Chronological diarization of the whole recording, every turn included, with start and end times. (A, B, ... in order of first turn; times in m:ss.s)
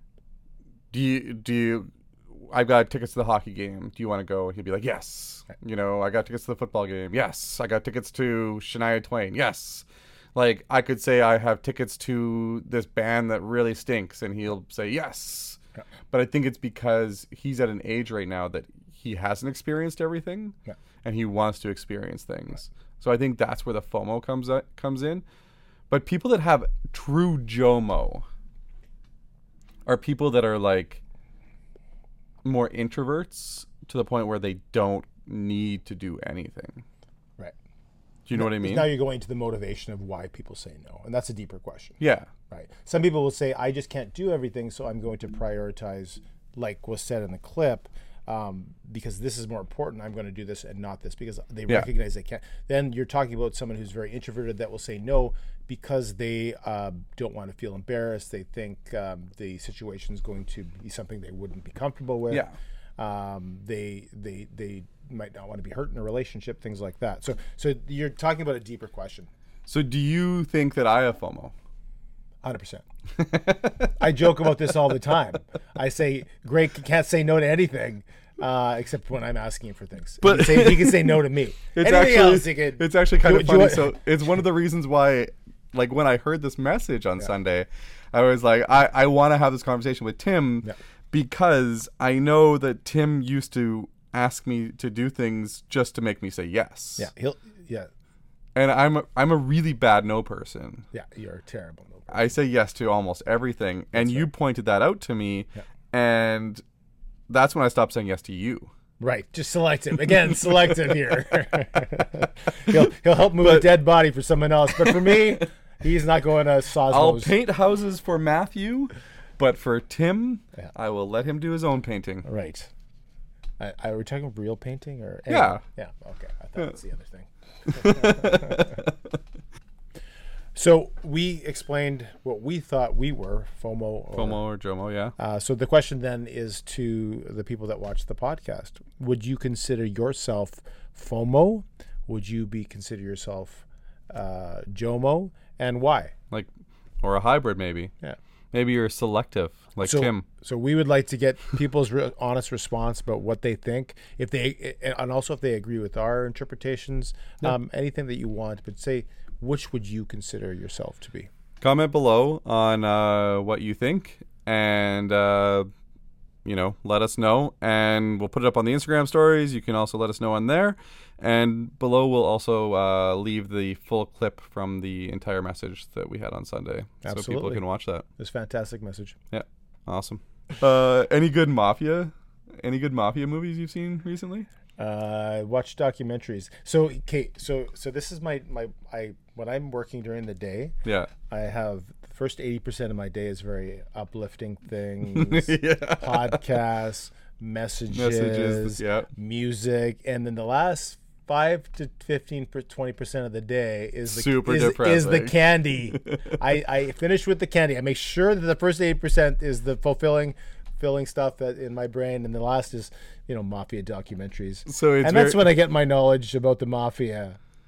0:00.9-0:15.6 A
0:16.1-0:25.2 A
0:25.9-0:28.2 A
0:29.9-0:31.0 A
0:32.4-0:36.8 A
0:38.3-0:38.9 A
0:38.3-0:42.0 B
0:42.0-0:42.3 A
0:42.5-1:02.5 B
1:03.0-1:09.3 B
1:09.6-1:11.5 A
1:12.4-1:12.8 B
1:13.2-1:13.9 A
1:14.0-1:24.0 B
1:20.2-1:37.1 A
1:37.0-1:37.9 B
1:38.6-1:40.9 A
1:40.9-1:42.3 B
1:42.1-1:46.6 A
1:44.0-1:44.3 B
1:47.3-1:48.7 A
1:49.0-1:57.3 B
1:53.4-1:53.8 A
1:54.8-1:55.4 A
1:56.9-2:02.3 A
2:02.2-2:02.7 B
2:03.6-2:08.8 B
2:05.3-2:05.6 A
2:07.7-2:09.0 A
2:10.6-2:14.4 B
2:14.1-2:15.1 A
2:15.2-2:26.1 B
2:27.0-2:27.9 A
2:28.5-2:30.2 A
2:29.8-2:41.3 B
2:41.6-2:45.7 A
2:46.4-2:58.1 A
2:57.0-2:57.6 B
2:58.2-2:59.2 B
2:59.3-3:04.5 A
3:04.8-3:10.7 B
3:10.8-3:11.1 A
3:11.3-3:37.4 B
3:15.1-3:16.4 A
3:17.9-3:19.1 A
3:24.1-3:25.4 A
3:25.9-3:26.2 A
3:34.7-3:35.5 A